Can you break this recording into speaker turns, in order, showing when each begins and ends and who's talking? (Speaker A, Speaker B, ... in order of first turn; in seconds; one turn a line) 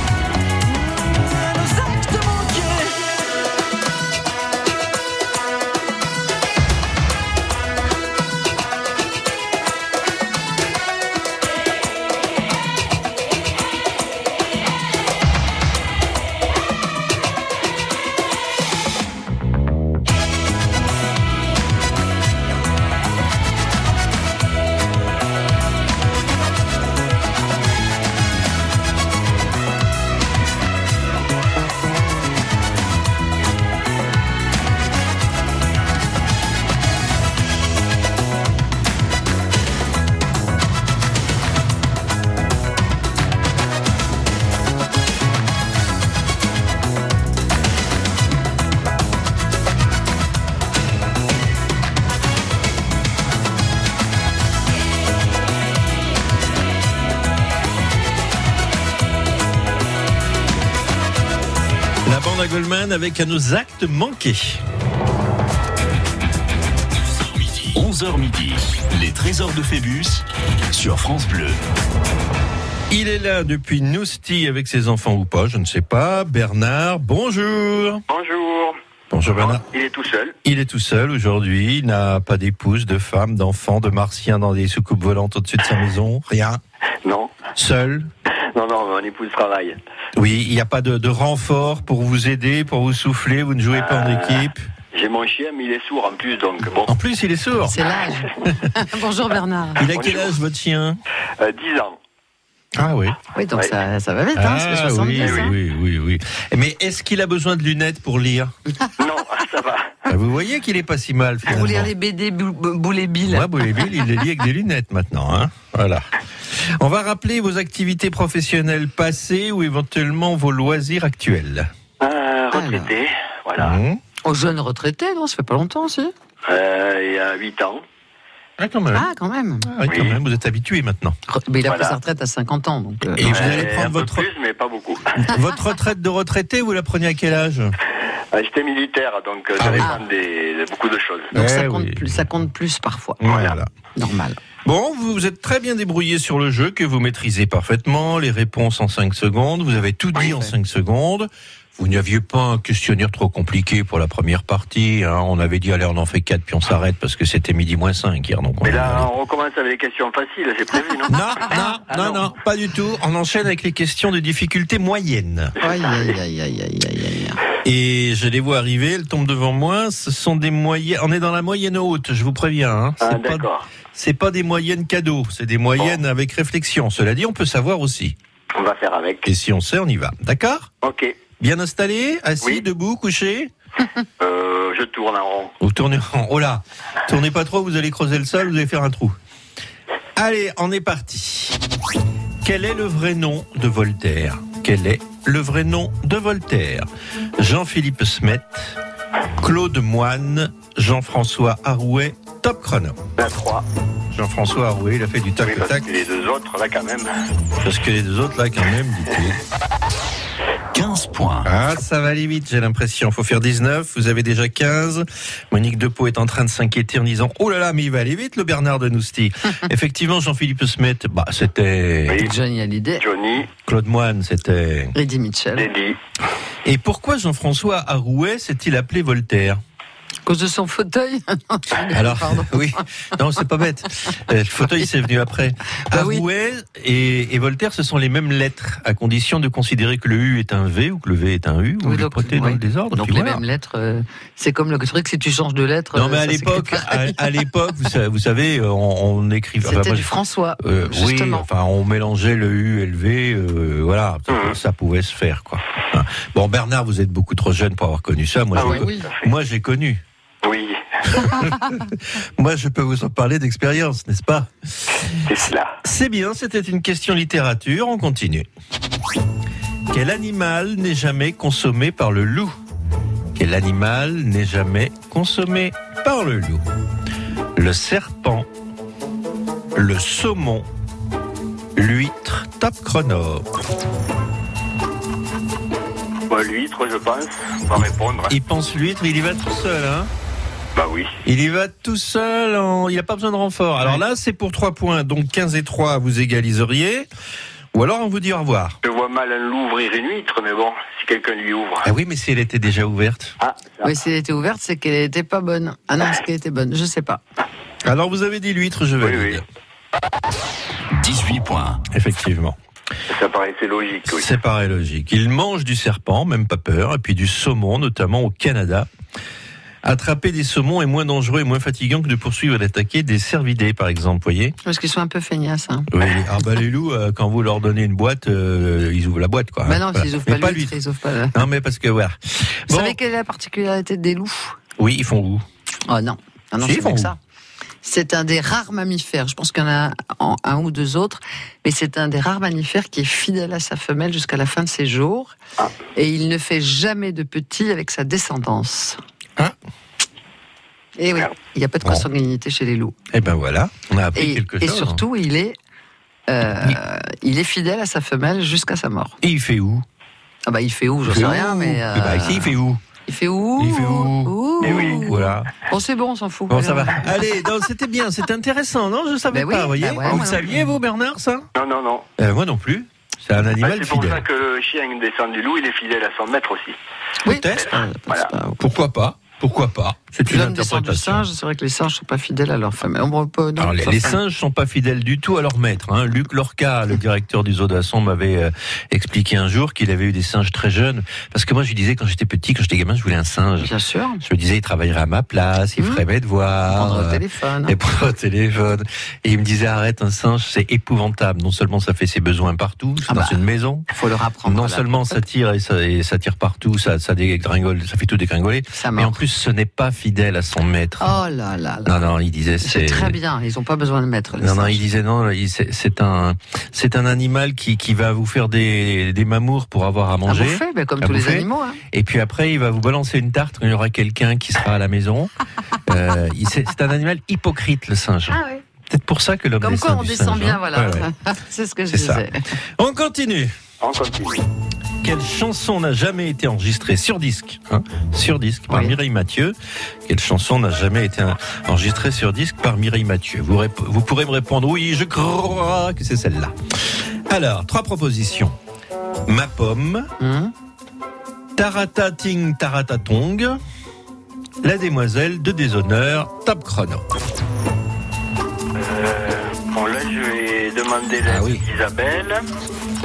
Speaker A: 1.2-3.2
Speaker B: 62.0-64.6
Speaker C: 67.5-71.6
Speaker B: 72.9-78.0
Speaker D: 78.1-78.8
Speaker B: 79.1-79.6
Speaker D: 79.4-80.3
Speaker B: 80.4-86.6
Speaker D: 87.0-87.3
Speaker B: 87.5-88.1
Speaker D: 88.5-89.8
Speaker B: 90.1-94.7
Speaker D: 93.7-97.0
Speaker B: 96.9-97.8
Speaker E: 97.7-99.8
Speaker B: 99.8-101.0
Speaker D: 99.9-100.3
Speaker D: 101.4-102.0
Speaker B: 102.7-103.2
Speaker E: 103.3-105.5
Speaker B: 104.3-108.5
Speaker D: 105.2-105.5
Speaker D: 109.0-110.0
Speaker B: 110.1-111.9
Speaker E: 111.5-113.9
Speaker B: 113.2-121.7
Speaker D: 122.0-123.8
Speaker E: 122.5-122.9
Speaker B: 123.6-124.0
Speaker E: 124.2-126.1
Speaker D: 126.5-127.8
Speaker B: 128.6-129.1
Speaker E: 128.9-129.7
Speaker B: 129.6-131.2
Speaker D: 129.9-130.2
Speaker E: 131.3-133.6
Speaker D: 131.7-132.0
Speaker B: 133.1-134.3
Speaker D: 133.2-135.1
Speaker B: 135.2-137.8
Speaker D: 138.3-141.3
Speaker B: 139.6-139.9
Speaker E: 141.3-143.2
Speaker B: 141.3-142.2
Speaker B: 143.2-143.7
Speaker D: 143.2-143.6
Speaker E: 143.9-144.4
Speaker B: 144.6-159.1
Speaker D: 158.6-162.3
Speaker B: 161.1-165.5
Speaker E: 165.6-167.4
Speaker B: 167.6-178.2
Speaker D: 173.0-173.7
Speaker D: 178.6-179.3
Speaker B: 179.2-180.7
Speaker D: 180.8-181.1
Speaker B: 181.4-183.5
Speaker D: 184.2-185.5
Speaker B: 185.6-189.2
Speaker B: 190.2-191.6
Speaker B: 192.4-198.8
Speaker B: 199.4-203.0
Speaker D: 203.2-203.7
Speaker B: 204.1-205.9
Speaker D: 205.4-207.1
Speaker B: 207.6-209.4
Speaker C: 210.7-211.5
Speaker B: 211.4-222.2
Speaker E: 222.2-223.0
Speaker D: 223.0-223.5
Speaker B: 223.7-224.9
Speaker E: 224.9-225.7
Speaker D: 225.6-226.0
Speaker B: 226.6-229.6
Speaker E: 230.2-232.7
Speaker B: 231.9-243.4
Speaker E: 235.9-236.2
Speaker E: 241.8-247.2
Speaker B: 245.9-260.0
Speaker E: 249.6-251.4
Speaker D: 254.3-254.6
Speaker D: 258.6-259.3
Speaker E: 258.6-259.1
Speaker D: 260.4-261.3
Speaker B: 261.1-264.5
Speaker D: 265.2-265.8
Speaker B: 265.8-268.5
Speaker B: 269.9-272.6
Speaker B: 273.3-276.6
Speaker B: 277.6-278.5
Speaker B: 279.7-280.7
Speaker B: 281.8-283.5
Speaker D: 286.3-288.3
Speaker B: 288.3-290.1
Speaker D: 290.8-291.1
Speaker B: 291.2-297.1
Speaker B: 297.7-298.8
Speaker D: 298.8-301.9
Speaker B: 301.8-303.4
Speaker D: 303.4-303.9
Speaker E: 303.8-307.2
Speaker B: 307.8-309.4
Speaker D: 309.0-309.4
Speaker C: 310.9-311.8
Speaker B: 311.9-312.6
Speaker D: 313.1-314.3
Speaker B: 314.1-318.9
Speaker B: 319.8-324.6
Speaker E: 324.6-325.9
Speaker B: 325.9-330.8
Speaker E: 329.6-331.4
Speaker B: 331.3-333.0
Speaker E: 332.7-334.6
Speaker B: 334.8-335.4
Speaker E: 335.9-337.2
Speaker B: 336.6-337.1
Speaker E: 337.8-345.4
Speaker E: 345.9-349.0
Speaker E: 351.0-352.9
Speaker B: 353.1-355.0
Speaker E: 354.1-355.6
Speaker E: 356.3-359.2
Speaker B: 359.2-359.8
Speaker E: 360.5-362.5
Speaker B: 361.1-362.8
Speaker E: 363.1-367.1
Speaker B: 363.6-365.5
Speaker D: 364.6-365.0
Speaker B: 366.5-371.5
Speaker E: 369.3-370.6
Speaker D: 370.1-370.4
Speaker D: 371.5-372.1
Speaker B: 372.2-374.2
Speaker D: 373.6-376.8
Speaker E: 377.2-378.6
Speaker B: 377.2-377.7
Speaker B: 378.6-381.2
Speaker E: 380.2-384.2
Speaker B: 383.6-403.9
Speaker E: 393.6-394.2
Speaker E: 395.8-396.0
Speaker E: 396.7-397.8
Speaker E: 403.1-405.2
Speaker B: 404.4-411.1
Speaker E: 408.7-409.1
Speaker E: 411.0-412.1
Speaker B: 411.9-413.2
Speaker E: 412.6-414.8
Speaker B: 414.4-425.3
Speaker E: 420.2-421.8
Speaker B: 425.8-431.1
Speaker E: 428.3-428.6
Speaker E: 429.6-432.4
Speaker B: 431.9-432.2
Speaker B: 432.8-433.5
Speaker D: 433.8-434.4
Speaker B: 435.0-448.6
Speaker E: 438.7-438.9
Speaker B: 449.3-450.1
Speaker E: 450.2-450.5
Speaker B: 451.6-453.6
Speaker B: 454.6-457.0
Speaker D: 458.8-462.4
Speaker B: 461.2-461.6